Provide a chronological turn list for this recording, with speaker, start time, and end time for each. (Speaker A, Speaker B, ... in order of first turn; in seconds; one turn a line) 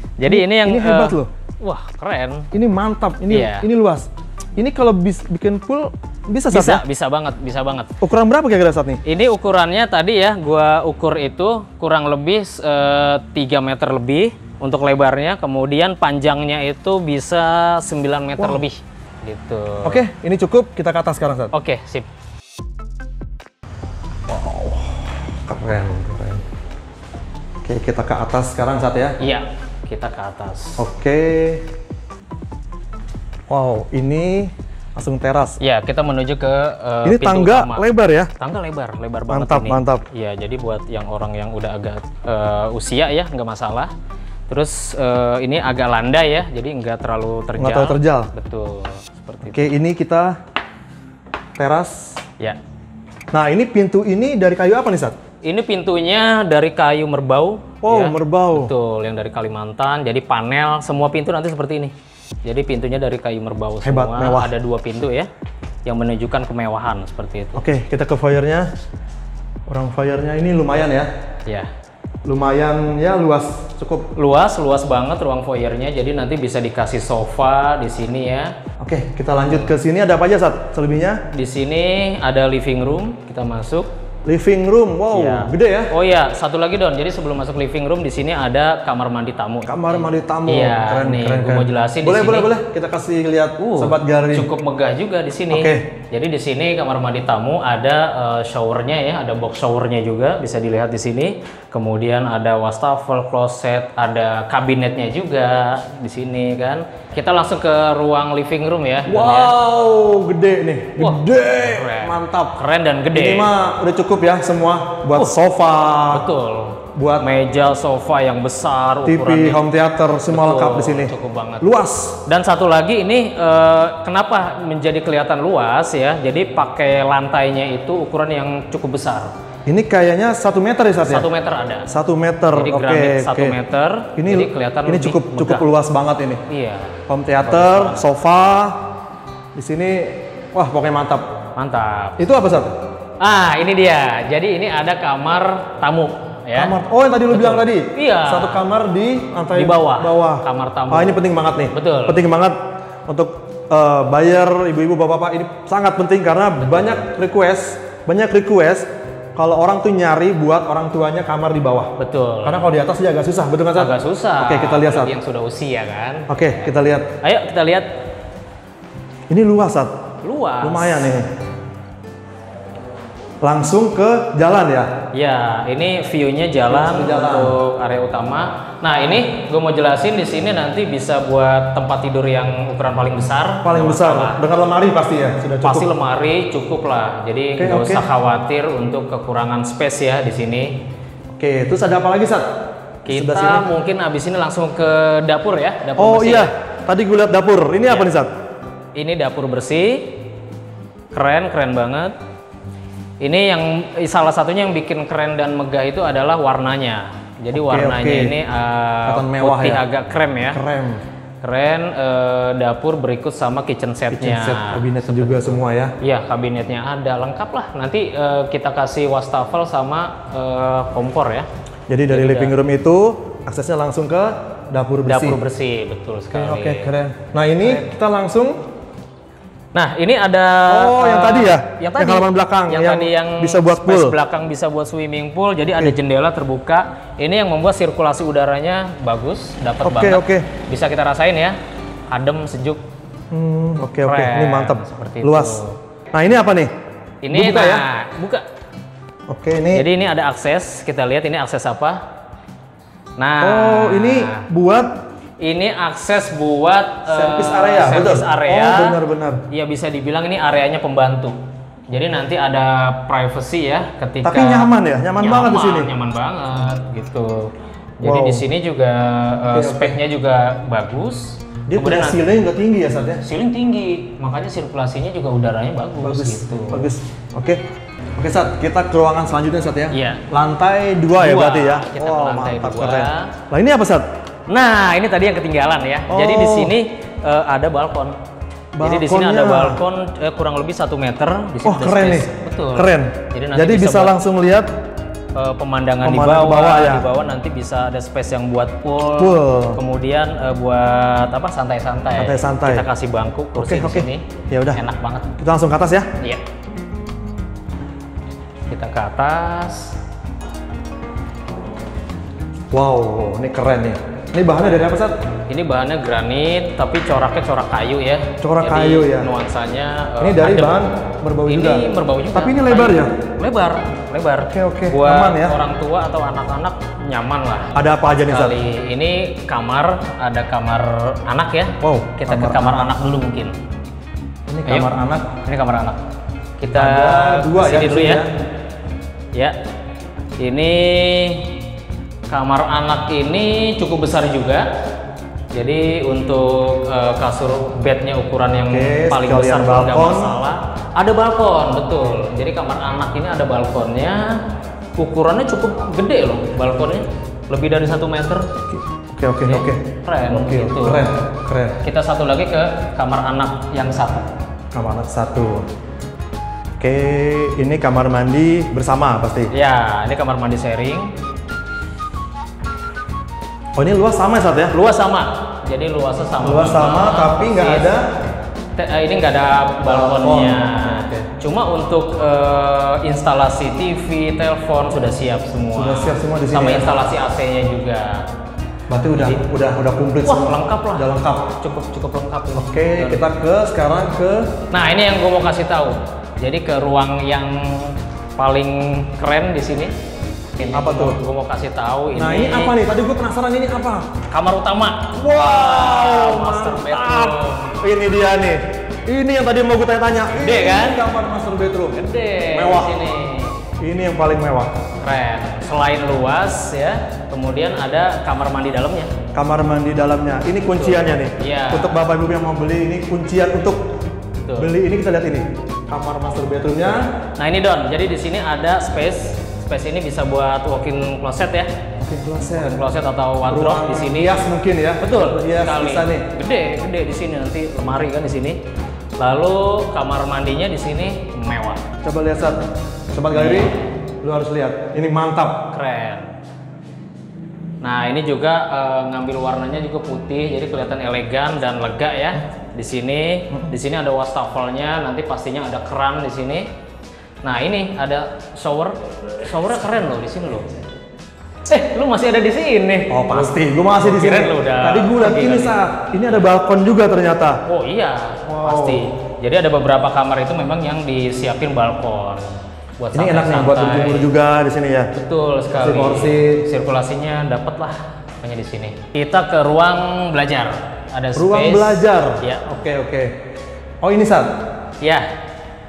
Speaker A: 0.2-2.5
Speaker B: 0.2-1.3
Speaker B: 2.5-6.8
Speaker A: 3.3-3.7
Speaker A: 6.5-7.9
Speaker B: 8.0-9.0
Speaker A: 9.0-20.0
Speaker B: 18.4-18.6
Speaker B: 19.8-21.5
Speaker A: 21.5-22.1
Speaker B: 24.3-26.4
Speaker B: 27.6-29.2
Speaker A: 29.2-30.8
Speaker B: 30.8-31.7
Speaker B: 33.5-35.6
Speaker A: 35.6-43.9
Speaker B: 37.0-38.3
Speaker B: 39.3-40.0
Speaker A: 44.5-49.7
Speaker B: 47.6-48.3
Speaker B: 49.4-50.4
Speaker B: 51.6-52.2
Speaker B: 53.3-55.1
Speaker A: 55.4-65.3
Speaker B: 57.8-58.7
Speaker B: 63.8-64.5
Speaker A: 65.8-67.6
Speaker B: 67.5-68.7
Speaker B: 69.7-71.1
Speaker B: 72.2-74.1
Speaker A: 74.2-78.5
Speaker B: 78.8-81.2
Speaker A: 79.3-79.7
Speaker A: 81.3-83.9
Speaker B: 84.2-85.9
Speaker A: 85.1-92.5
Speaker B: 89.7-94.5
Speaker A: 93.6-109.5
Speaker B: 95.5-95.9
Speaker B: 109.0-116.2
Speaker A: 111.0-113.5
Speaker A: 115.1-115.4
Speaker A: 116.1-119.6
Speaker B: 116.9-117.3
Speaker B: 119.0-122.2
Speaker A: 120.2-121.7
Speaker A: 122.2-129.3
Speaker B: 129.7-131.3
Speaker A: 131.0-131.9
Speaker B: 131.8-133.6
Speaker A: 132.5-135.7
Speaker B: 134.2-136.4
Speaker A: 136.5-138.1
Speaker B: 137.1-138.8
Speaker B: 139.5-141.3
Speaker A: 141.6-142.2
Speaker B: 142.2-142.7
Speaker A: 143.2-146.7
Speaker B: 146.5-165.1
Speaker A: 147.3-148.6
Speaker A: 149.5-152.2
Speaker A: 156.6-156.9
Speaker A: 162.0-162.7
Speaker A: 163.7-166.3
Speaker B: 166.3-167.1
Speaker A: 167.2-167.9
Speaker B: 169.3-170.0
Speaker A: 170.2-171.1
Speaker B: 170.6-171.3
Speaker B: 173.4-174.9
Speaker A: 175.1-184.4
Speaker B: 176.7-177.6
Speaker B: 183.6-185.9
Speaker A: 185.6-190.8
Speaker B: 187.6-188.0
Speaker B: 191.3-192.5
Speaker B: 193.1-193.7
Speaker A: 193.1-196.5
Speaker B: 196.0-198.3
Speaker A: 197.8-198.1
Speaker A: 198.9-200.3
Speaker A: 201.1-202.2
Speaker A: 203.2-210.6
Speaker B: 207.5-208.3
Speaker B: 209.1-209.8
Speaker B: 210.5-211.0
Speaker A: 211.4-221.5
Speaker B: 214.1-215.9
Speaker B: 221.9-225.4
Speaker A: 222.1-222.5
Speaker A: 225.1-226.9
Speaker B: 226.3-228.6
Speaker A: 227.6-227.9
Speaker A: 229.7-241.6
Speaker B: 230.7-234.2
Speaker B: 239.8-240.5
Speaker A: 242.1-242.8
Speaker B: 243.3-245.6
Speaker A: 244.0-245.8
Speaker B: 246.1-246.7
Speaker A: 247.2-248.4
Speaker B: 247.3-247.8
Speaker B: 249.3-249.8
Speaker A: 249.7-252.0
Speaker A: 253.2-254.5
Speaker B: 253.4-254.9
Speaker A: 255.4-259.0
Speaker B: 257.1-259.4
Speaker A: 259.5-261.4
Speaker A: 261.9-272.2
Speaker B: 264.2-265.9
Speaker B: 268.0-268.4
Speaker B: 269.5-270.0
Speaker B: 271.7-273.2
Speaker A: 273.2-276.9
Speaker B: 276.0-277.6
Speaker B: 278.2-284.1
Speaker A: 279.9-280.2
Speaker A: 281.1-283.3
Speaker A: 284.5-288.2
Speaker B: 286.1-286.7
Speaker B: 288.7-289.8
Speaker A: 288.8-294.2
Speaker B: 291.6-294.7
Speaker A: 295.3-305.3
Speaker B: 296.0-297.1
Speaker B: 299.2-299.8
Speaker B: 302.1-302.9
Speaker B: 303.5-304.8
Speaker B: 305.4-306.1
Speaker A: 308.7-309.9
Speaker B: 312.7-315.1
Speaker A: 315.5-320.8
Speaker B: 318.4-319.3
Speaker B: 320.2-323.1
Speaker A: 321.4-333.5
Speaker B: 324.5-325.6
Speaker B: 327.7-328.6
Speaker B: 331.8-332.9
Speaker B: 334.5-335.3
Speaker A: 335.4-336.0
Speaker A: 336.6-338.2
Speaker B: 336.7-338.3
Speaker A: 340.4-341.6
Speaker A: 342.3-344.7
Speaker A: 345.5-354.4
Speaker B: 348.7-350.3
Speaker A: 355.0-358.5
Speaker B: 358.7-361.8
Speaker A: 359.4-361.2
Speaker A: 361.8-364.3
Speaker B: 364.7-365.7
Speaker B: 366.8-369.5
Speaker A: 369.5-371.1
Speaker B: 373.8-374.7
Speaker A: 374.7-378.0
Speaker B: 376.4-378.1
Speaker A: 378.8-388.2
Speaker B: 379.8-381.3
Speaker B: 385.7-387.0
Speaker B: 388.9-391.5
Speaker A: 389.1-389.4
Speaker A: 390.2-393.2
Speaker B: 392.5-394.5
Speaker A: 394.7-399.9
Speaker A: 400.6-402.8
Speaker B: 400.6-401.2
Speaker B: 402.1-404.1
Speaker A: 404.3-407.8
Speaker B: 405.1-412.9
Speaker A: 410.3-411.1
Speaker A: 411.9-413.6
Speaker B: 413.8-414.7
Speaker A: 415.0-419.1
Speaker B: 419.3-423.8
Speaker A: 420.7-422.0
Speaker A: 424.5-424.7
Speaker B: 424.6-427.1
Speaker A: 427.4-431.7
Speaker B: 432.0-432.8
Speaker A: 432.5-434.4
Speaker B: 433.4-436.2
Speaker A: 435.0-438.6
Speaker A: 439.2-441.8
Speaker B: 442.0-445.6
Speaker A: 443.3-443.9
Speaker A: 445.7-446.3
Speaker A: 447.8-456.7
Speaker A: 457.4-460.7
Speaker A: 461.7-466.5
Speaker B: 463.1-467.6
Speaker A: 467.6-472.4
Speaker B: 468.4-469.0
Speaker A: 473.0-474.3
Speaker B: 473.1-475.1
Speaker A: 475.1-482.7
Speaker B: 475.8-476.6
Speaker B: 481.3-483.4
Speaker B: 484.0-484.6
Speaker A: 485.0-485.3